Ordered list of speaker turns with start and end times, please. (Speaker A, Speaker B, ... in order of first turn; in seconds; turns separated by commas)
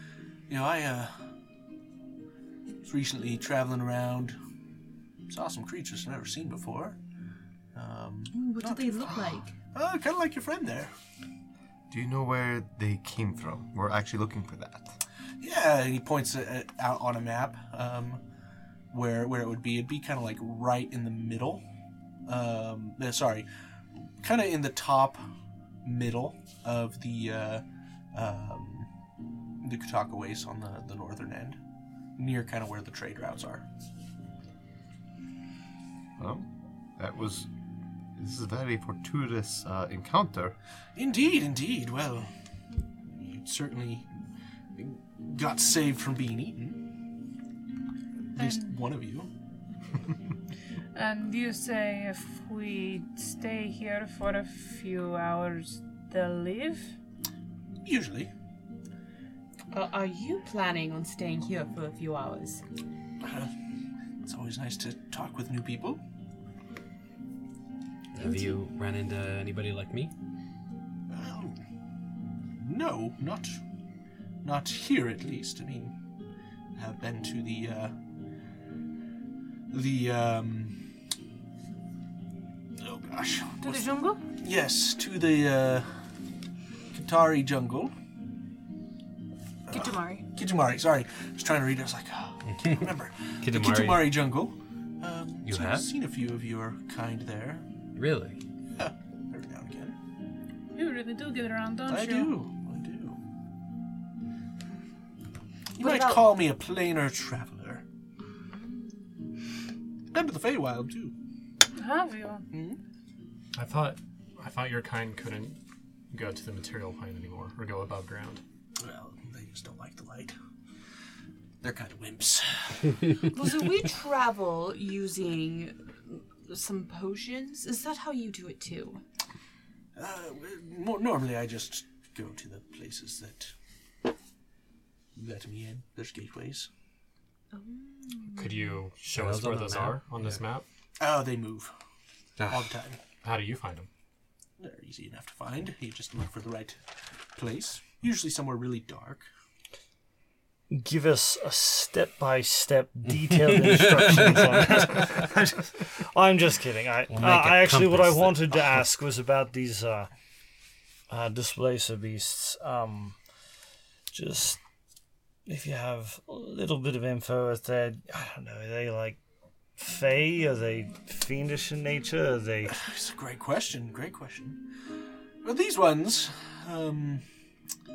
Speaker A: 0.5-1.3, Speaker A: 2.8-4.4, Speaker A: 5.3-7.0, Speaker A: 7.8-10.9, Speaker B: 8.3-9.5, Speaker C: 11.9-15.0, Speaker A: 15.4-18.2, Speaker A: 18.9-21.6, Speaker A: 22.3-23.5, Speaker A: 24.2-25.2, Speaker A: 25.8-28.9, Speaker A: 29.6-31.6, Speaker A: 32.2-33.7, Speaker C: 36.2-37.5, Speaker C: 38.2-40.6, Speaker A: 41.0-42.3, Speaker A: 43.1-44.1, Speaker A: 44.8-46.8, Speaker D: 48.4-48.7, Speaker A: 48.4-49.3, Speaker D: 51.0-56.9, Speaker A: 57.9-58.3, Speaker B: 59.7-62.6, Speaker A: 63.2-63.5, Speaker A: 64.2-66.0, Speaker E: 68.1-70.1, Speaker B: 68.2-68.6, Speaker A: 71.1-71.6, Speaker A: 72.6-73.6, Speaker A: 74.4-76.0, Speaker A: 76.8-77.9, Speaker A: 79.7-80.8, Speaker A: 82.8-85.9, Speaker D: 83.6-84.2, Speaker A: 86.9-87.9, Speaker A: 89.7-97.7, Speaker D: 89.7-90.3, Speaker E: 93.4-94.2, Speaker E: 95.5-95.9, Speaker E: 98.0-98.4, Speaker A: 98.8-100.0, Speaker D: 100.8-102.3, Speaker A: 101.9-103.2, Speaker A: 105.8-107.8, Speaker B: 105.8-106.3, Speaker A: 110.1-111.1, Speaker D: 111.8-112.5, Speaker A: 112.5-112.8, Speaker F: 113.5-115.6, Speaker F: 116.1-118.4, Speaker A: 118.8-120.3, Speaker A: 121.6-123.0, Speaker B: 123.3-129.0, Speaker A: 129.9-133.5, Speaker A: 135.2-136.7, Speaker B: 137.5-138.7, Speaker F: 138.3-140.7, Speaker E: 139.1-140.4, Speaker A: 141.0-141.7, Speaker E: 142.4-142.7, Speaker A: 142.5-143.0, Speaker F: 143.2-143.9, Speaker A: 144.6-146.8, Speaker A: 147.4-149.3, Speaker G: 150.7-160.1, Speaker E: 157.1-158.7, Speaker G: 161.1-163.2, Speaker G: 164.1-164.6, Speaker G: 165.5-169.2, Speaker G: 169.8-172.8, Speaker A: 172.7-174.6, Speaker A: 175.4-177.2